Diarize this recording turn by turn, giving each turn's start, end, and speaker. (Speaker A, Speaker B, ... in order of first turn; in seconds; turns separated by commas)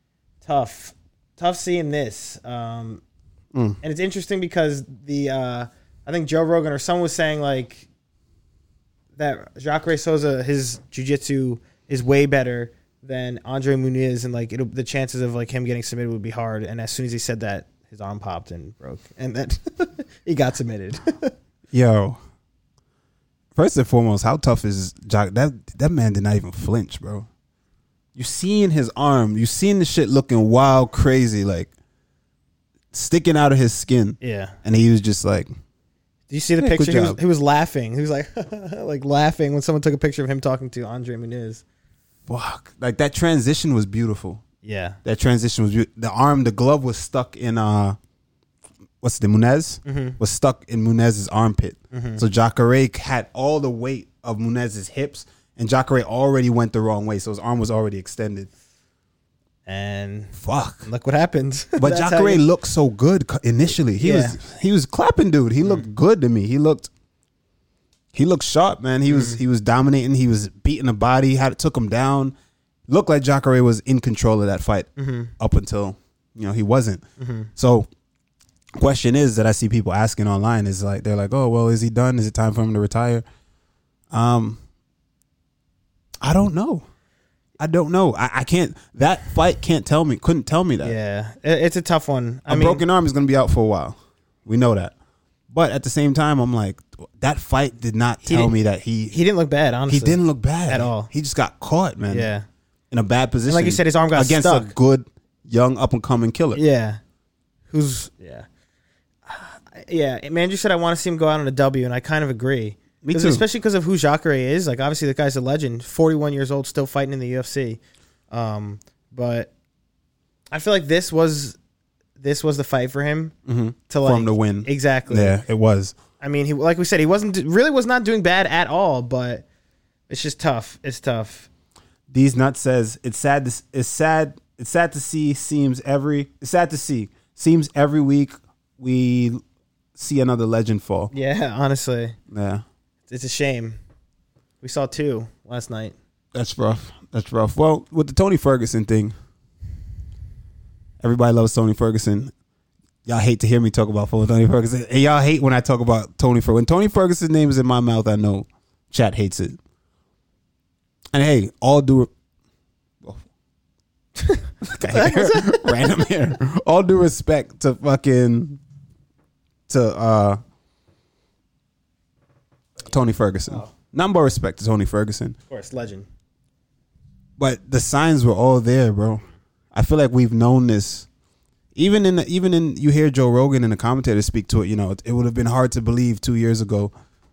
Speaker A: 0.4-3.0, Speaker B: 3.5-3.8, Speaker A: 3.8-7.9, Speaker A: 9.2-21.3, Speaker B: 21.7-22.2, Speaker B: 23.6-27.3, Speaker B: 28.1-31.7, Speaker B: 32.9-35.5, Speaker A: 34.2-34.6, Speaker A: 36.3-41.6, Speaker B: 36.6-37.2, Speaker B: 42.3-44.4, Speaker A: 44.6-45.0, Speaker B: 45.0-48.0, Speaker B: 49.0-58.5, Speaker A: 49.8-50.2, Speaker A: 51.9-52.2, Speaker A: 59.7-62.4, Speaker B: 60.4-60.9, Speaker B: 61.8-66.9, Speaker A: 64.0-64.4, Speaker B: 68.1-72.3, Speaker A: 69.1-69.4, Speaker B: 72.9-77.0, Speaker A: 75.0-75.3, Speaker A: 77.2-77.5, Speaker B: 77.5-77.9, Speaker B: 78.8-83.2, Speaker B: 84.1-84.6, Speaker B: 86.2-86.8, Speaker B: 87.6-90.9, Speaker A: 90.8-92.8, Speaker B: 92.5-94.9, Speaker B: 95.5-99.2, Speaker A: 98.2-98.5, Speaker A: 99.1-101.1, Speaker B: 99.9-102.3, Speaker A: 102.1-102.5, Speaker B: 102.9-106.6, Speaker A: 103.5-104.7, Speaker A: 106.5-107.0, Speaker A: 107.7-108.5, Speaker A: 109.2-117.8, Speaker B: 113.0-113.4, Speaker A: 118.3-119.5, Speaker A: 120.5-121.6, Speaker A: 122.2-123.3, Speaker B: 123.5-126.0, Speaker A: 123.9-125.4, Speaker A: 126.2-129.4, Speaker A: 130.1-131.5, Speaker B: 132.1-139.4, Speaker B: 139.9-141.1, Speaker A: 141.1-142.2, Speaker B: 142.3-142.6, Speaker A: 143.1-143.8, Speaker A: 144.6-145.9, Speaker B: 146.3-149.1, Speaker B: 151.0-152.3, Speaker B: 153.1-159.6, Speaker B: 161.1-162.1, Speaker A: 164.2-166.0, Speaker B: 164.6-168.6, Speaker B: 169.7-170.4, Speaker B: 172.8-175.3, Speaker A: 175.5-176.1, Speaker B: 177.4-181.1, Speaker B: 181.7-186.9